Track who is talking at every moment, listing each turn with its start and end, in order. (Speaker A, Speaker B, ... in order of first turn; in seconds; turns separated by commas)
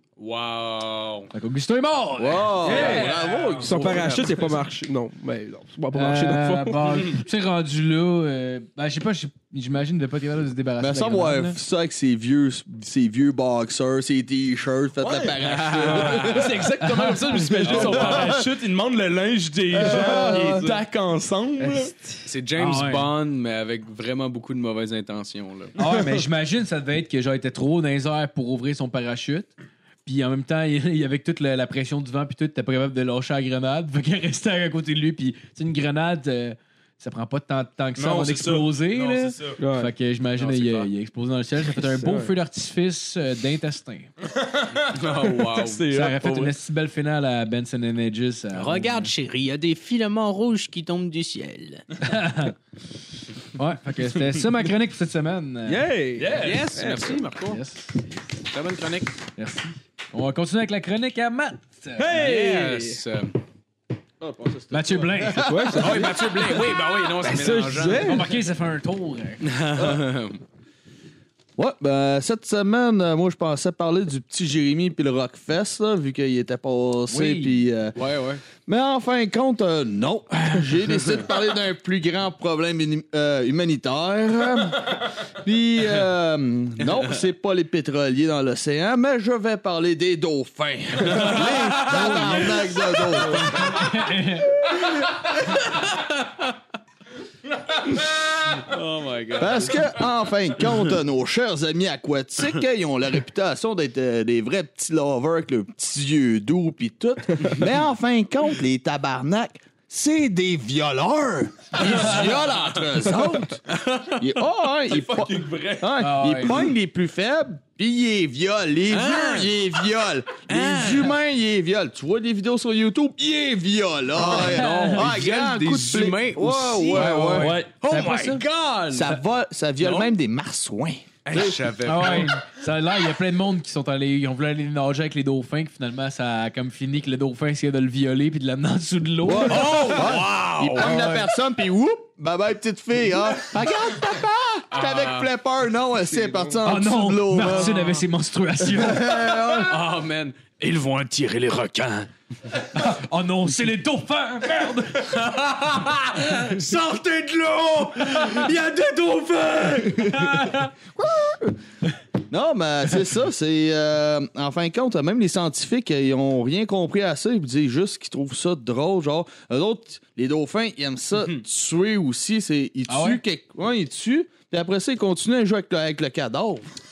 Speaker A: 0.2-1.3, Speaker B: 1.3-3.3, Speaker C: 2.2-4.1, Speaker D: 2.7-3.1, Speaker E: 2.8-3.7, Speaker D: 3.6-7.0, Speaker A: 3.8-4.5, Speaker B: 5.9-11.6, Speaker C: 10.8-16.7, Speaker E: 15.0-21.9, Speaker A: 15.4-16.5, Speaker B: 16.8-18.2, Speaker C: 17.6-18.4, Speaker D: 19.8-20.8, Speaker C: 19.8-20.3, Speaker D: 21.6-22.1, Speaker A: 22.2-25.7, Speaker B: 22.6-23.1, Speaker B: 25.8-29.5, Speaker B: 30.0-44.1, Speaker E: 38.0-39.6, Speaker D: 39.6-39.9, Speaker A: 40.4-40.9, Speaker D: 41.7-42.3, Speaker E: 44.3-46.5, Speaker A: 44.9-45.8, Speaker B: 45.9-49.1, Speaker A: 48.5-51.8, Speaker B: 52.0-52.5, Speaker B: 53.5-55.9, Speaker D: 55.6-57.1, Speaker E: 56.2-57.0, Speaker A: 56.3-57.6, Speaker B: 57.4-58.4, Speaker A: 58.5-59.1, Speaker B: 59.4-62.3, Speaker D: 62.0-63.0, Speaker A: 62.1-63.4, Speaker C: 64.2-66.1, Speaker B: 64.7-66.1, Speaker D: 65.5-66.5, Speaker A: 65.7-68.2, Speaker D: 67.1-68.3, Speaker B: 68.0-69.5, Speaker A: 69.4-70.4, Speaker C: 69.8-70.0, Speaker C: 71.6-78.0, Speaker B: 77.1-77.6, Speaker A: 78.0-78.4, Speaker C: 78.6-93.9, Speaker A: 91.0-92.3, Speaker B: 91.2-94.7, Speaker A: 95.7-96.4, Speaker A: 98.5-99.9, Speaker C: 99.3-113.6, Speaker A: 113.7-114.3, Speaker C: 114.1-127.5, Speaker E: 114.9-116.1, Speaker B: 116.0-116.7, Speaker A: 118.9-119.5, Speaker A: 120.5-121.2, Speaker A: 124.2-129.2, Speaker B: 124.3-125.0, Speaker B: 126.9-128.0, Speaker E: 127.4-128.4, Speaker C: 128.9-131.6, Speaker A: 129.8-130.1, Speaker A: 131.2-132.3, Speaker B: 131.8-140.1, Speaker C: 139.2-147.8, Speaker A: 139.4-141.2, Speaker A: 144.7-145.3, Speaker B: 146.6-149.5, Speaker A: 147.5-148.0, Speaker C: 148.6-149.8, Speaker A: 149.6-152.1, Speaker B: 152.6-155.2, Speaker A: 155.0-160.1, Speaker B: 158.2-158.4, Speaker B: 160.0-160.5, Speaker C: 160.1-161.6, Speaker C: 162.3-176.7, Speaker B: 172.9-173.2